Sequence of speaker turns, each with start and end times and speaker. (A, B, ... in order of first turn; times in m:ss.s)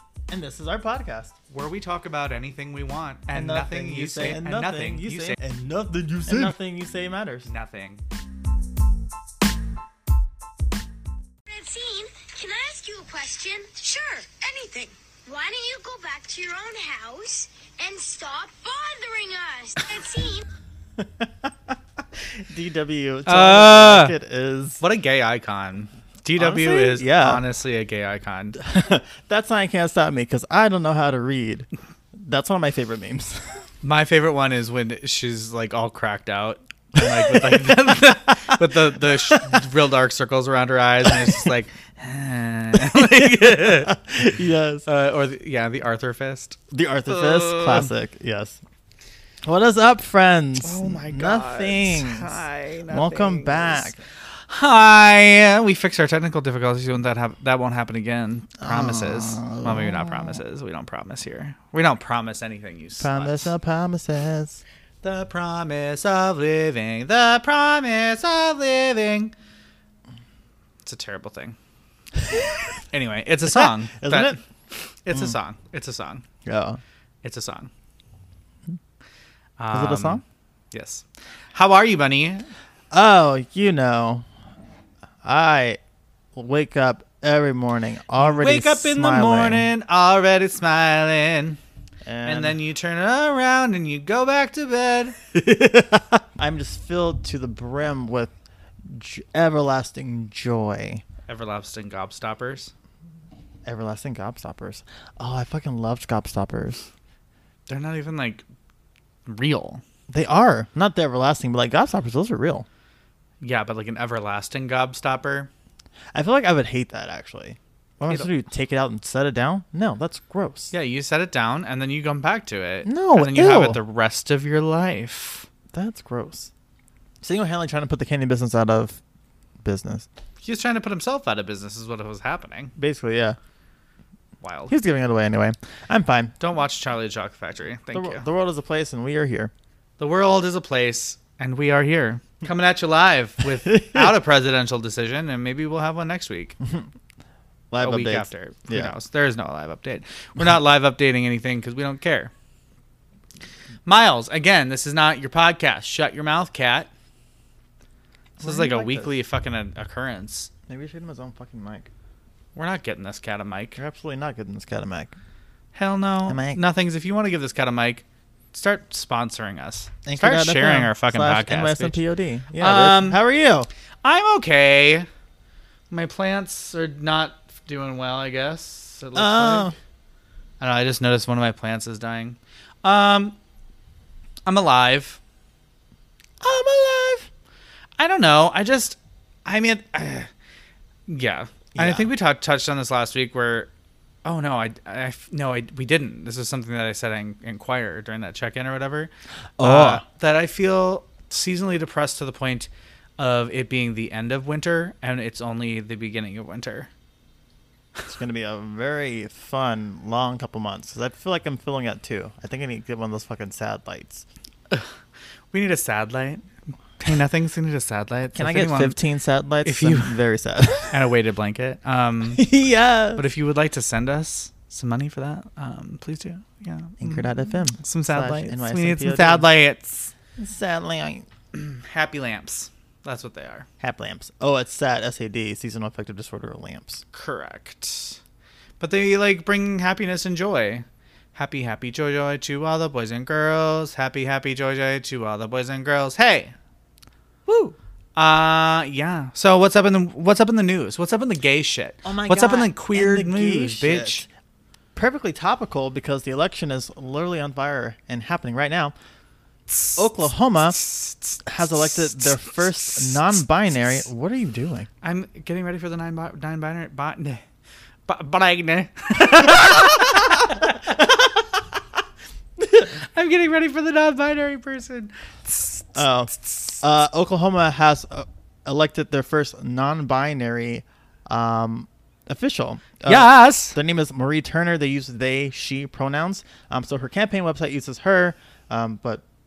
0:00.3-0:01.3 A
0:01.5-0:05.4 B
0:03.3-0:07.5 A
0:07.5-0:08.0 B
0:11.5-0:20.5 C
0:21.0-0:21.5 A
0:22.3-0:24.8 A
0:23.2-0:24.1 B
0:24.8-0:28.6 B
0:26.4-0:27.4 A
0:28.6-0:33.6 A
0:33.8-0:43.9 B
0:37.0-0:37.7 A
0:39.3-0:39.6 A
0:41.1-0:41.4 A
0:42.7-0:44.9 A
0:44.8-0:47.9 B
0:46.7-0:48.6 A
0:49.4-0:54.0 A
0:50.6-0:53.9 B
0:54.5-1:03.5 B
0:58.6-1:00.4 A
1:03.0-1:04.6 A
1:05.0-1:09.3 B
1:10.8-1:11.6 B
1:12.2-1:12.8 A
1:12.9-1:14.4 B
1:13.5-1:14.4 A
1:14.9-1:16.2 B
1:16.4-1:16.8 A
1:17.2-1:17.7 B
1:19.6-1:22.5 B
1:19.7-1:20.2 A
1:22.9-1:24.2 A
1:25.2-1:25.8 A
1:26.3-1:29.7 A
1:28.2-1:31.6 B
1:32.0-1:32.6 A
1:32.2-1:35.2 B
1:35.3-1:38.3 A
1:38.8-1:41.0 A
1:41.3-1:42.7 B
1:43.6-1:46.9 A
1:47.7-1:48.4 B
1:49.3-1:49.8 B
1:50.1-1:52.7 A
1:53.4-1:55.5 B
1:56.1-2:00.7 A
2:00.7-2:05.5 B
2:02.8-2:03.8 A
2:05.7-2:06.5 A
2:07.2-2:09.0 A
2:09.6-2:10.1 A
2:10.4-2:12.7 B
2:12.8-2:13.4 A
2:14.4-2:14.7 B
2:14.7-2:16.3 A
2:16.4-2:18.2 B
2:17.9-2:19.5 A
2:20.0-2:26.6 B
2:23.6-2:24.1 A
2:27.7-2:28.9 A
2:27.8-2:32.3 B
2:33.8-2:36.9 B
2:38.4-2:40.5 B
2:38.4-2:39.1 A
2:40.7-2:41.9 A
2:42.5-2:43.8 B
2:43.8-2:45.1 A
2:45.7-2:52.0 B
2:46.3-2:46.6 A
2:50.0-2:53.7 A
2:52.6-2:53.2 B
2:54.0-2:55.1 B
2:55.9-2:59.7 B
2:59.1-2:59.7 A
3:00.6-3:03.4 B
3:04.4-3:05.2 B
3:06.4-3:07.3 A
3:08.0-3:10.3 B
3:11.1-3:13.7 B
3:11.7-3:12.0 A
3:14.2-3:26.9 B
3:19.6-3:20.0 A
3:28.0-3:34.2 A
3:35.5-3:39.0 B
3:38.3-3:41.0 A
3:39.6-3:40.2 B
3:40.9-3:42.4 B
3:42.3-3:43.2 A
3:43.2-3:50.1 B
3:47.0-3:49.5 A
3:50.4-3:51.3 A
3:51.5-3:53.7 B
3:53.8-3:57.0 A
3:57.1-3:58.2 B
3:58.8-4:06.5 B
4:07.5-4:07.8 A
4:08.2-4:14.2 B
4:12.0-4:14.2 A
4:14.9-4:18.9 A
4:19.7-4:23.4 B
4:20.0-4:20.8 A
4:21.4-4:24.9 A
4:25.0-4:27.4 B
4:28.1-4:30.8 B
4:29.4-4:31.4 A
4:32.6-4:32.9 A
4:32.9-4:36.8 B
4:35.9-4:49.2 A
4:43.0-4:43.8 B